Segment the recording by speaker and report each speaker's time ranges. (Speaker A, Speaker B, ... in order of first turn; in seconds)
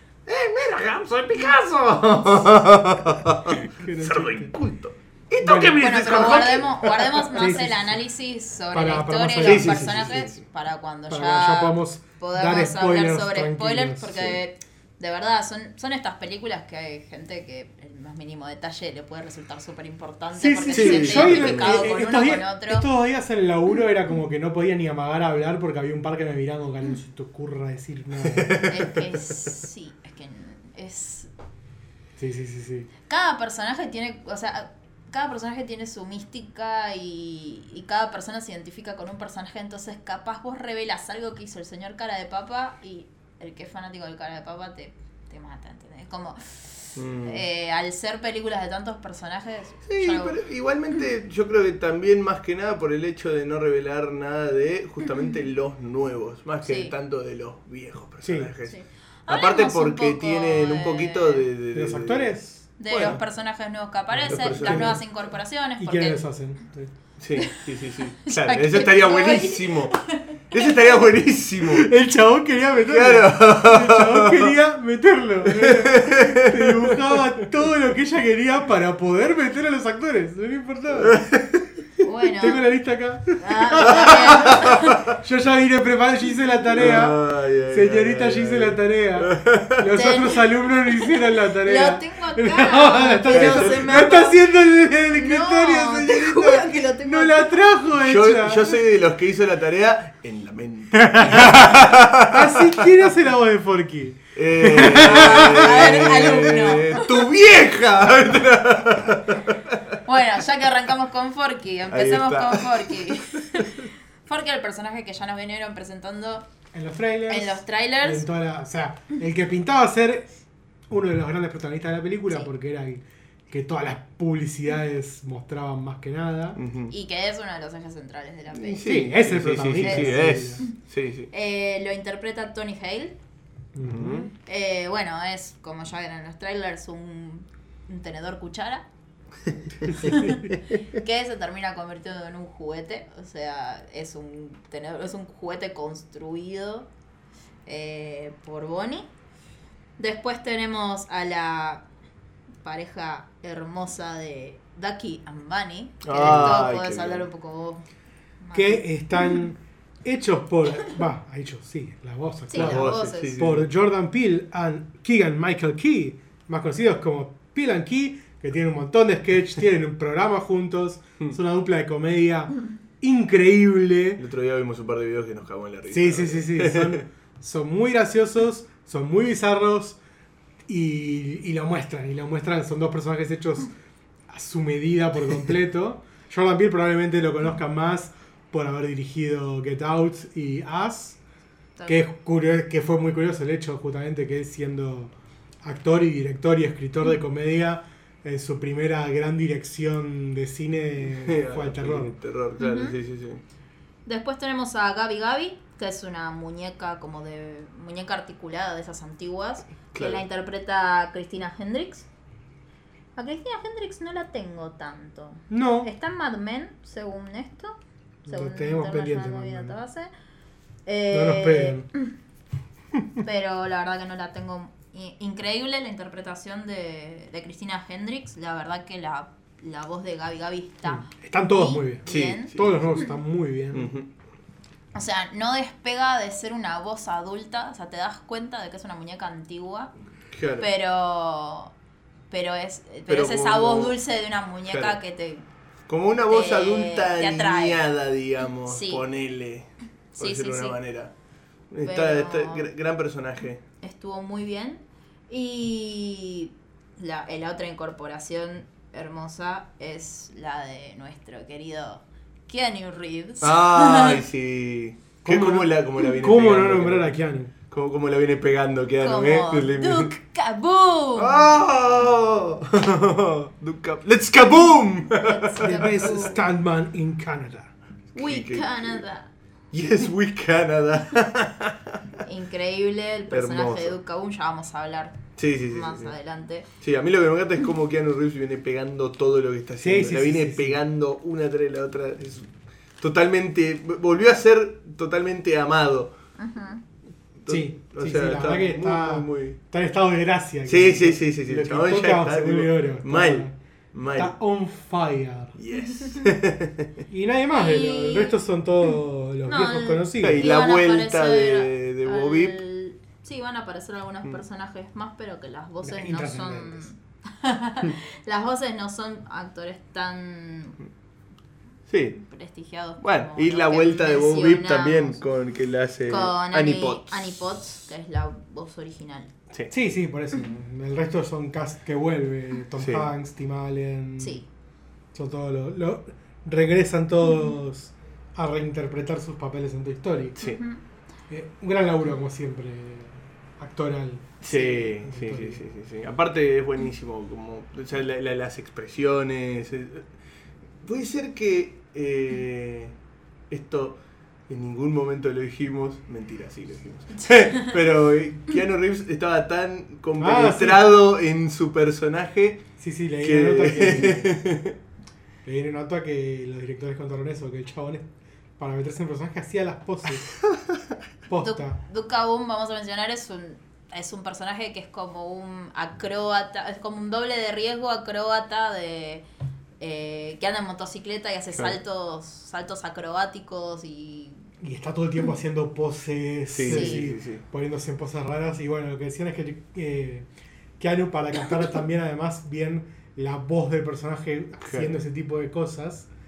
Speaker A: 0.3-7.3, 9.4-10.4, 20.7-21.9, 28.2-29.3, 47.0-47.4, 49.9-63.2, 64.2-65.0, 67.2-71.9, 72.8-74.5, 75.5-77.4, 80.9-81.8, 83.8-85.1, 86.8-89.9, 93.3-93.8, 98.0-102.9, 104.3-110.0, 111.9-113.9, 126.6-126.9, 128.5-131.3, 133.8-134.3, 139.5-140.6, 156.0-157.2, 162.6-163.7, 174.2-177.0, 201.1-203.4, 209.9-210.2, 232.1-232.8, 233.7-234.1, 240.3-240.7, 243.1-243.9, 244.7-245.0, 245.9-251.1, 251.7-253.6, 263.4-270.2, 271.2-276.3, 278.1-279.1, 279.7-282.2, 283.3-284.0, 285.4-286.1, 286.8-292.5, 293.0-296.1, 297.4-299.6, 300.7-304.3, 305.6-307.0, 310.2-312.6, 321.9-322.2, 323.0-327.5, 332.8-333.1, 344.4-350.1, 350.8-352.9, 353.5-354.0, 354.5-362.6, 363.2-364.8, 386.5-387.4, 394.6-394.9
Speaker B: 3.6-4.5, 5.4-5.8, 7.3-8.0, 8.7-10.3, 11.1-14.4, 20.3-28.7, 32.2-32.9, 58.2-58.5, 61.7-62.6, 64.1-65.0, 65.8-66.9, 71.6-81.2, 82.4-87.2, 87.7-98.8, 101.0-106.4, 116.7-120.3, 120.9-126.6, 128.8-130.6, 133.7-134.3, 156.2-156.7, 158.5-174.2, 175.9-180.0, 180.7-183.7, 184.3-191.2, 191.9-202.2, 215.5-215.9, 218.2-219.8, 221.1-221.9, 230.8-233.9, 265.2-267.5, 275.6-277.7, 289.8-290.8, 297.5-303.6, 304.1-305.6, 307.1-310.4, 315.8-316.9, 329.7-334.4, 335.1-340.4, 341.3-345.6, 360.2-360.9, 362.8-364.4, 365.4-370.3, 371.3-371.8, 384.6-390.3, 390.8-396.1
Speaker C: 5.8-22.9, 28.7-31.3, 33.1-50.4, 56.6-56.9, 58.7-61.5, 62.8-66.2, 68.2-71.0, 82.0-82.7, 83.4-85.1, 89.9-94.5, 95.1-97.5, 105.0-107.3, 110.1-116.5, 117.3-118.3, 126.9-129.0, 129.8-130.7, 131.3-133.2, 134.4-138.8, 139.8-146.9, 147.7-149.1, 150.0-151.9, 152.6-157.8, 158.4-159.4, 162.5-163.4, 191.8-192.1, 202.6-203.0, 204.1-212.1, 213.2-217.8, 218.3-220.1, 220.9-222.1, 223.2-233.1, 234.9-239.9, 240.6-241.7, 242.3-245.4, 246.3-247.8, 248.7-249.1, 250.2-250.8, 251.8-252.7, 253.8-264.2, 269.0-271.6, 275.2-276.4, 278.1-279.3, 282.2-286.7, 296.4-296.8, 305.9-306.3, 307.5-308.4, 309.5-320.8, 322.2-325.2, 326.1-329.3, 334.2-334.5, 340.4-340.8, 357.2-357.7, 371.4-379.2, 379.8-384.5, 386.7-387.0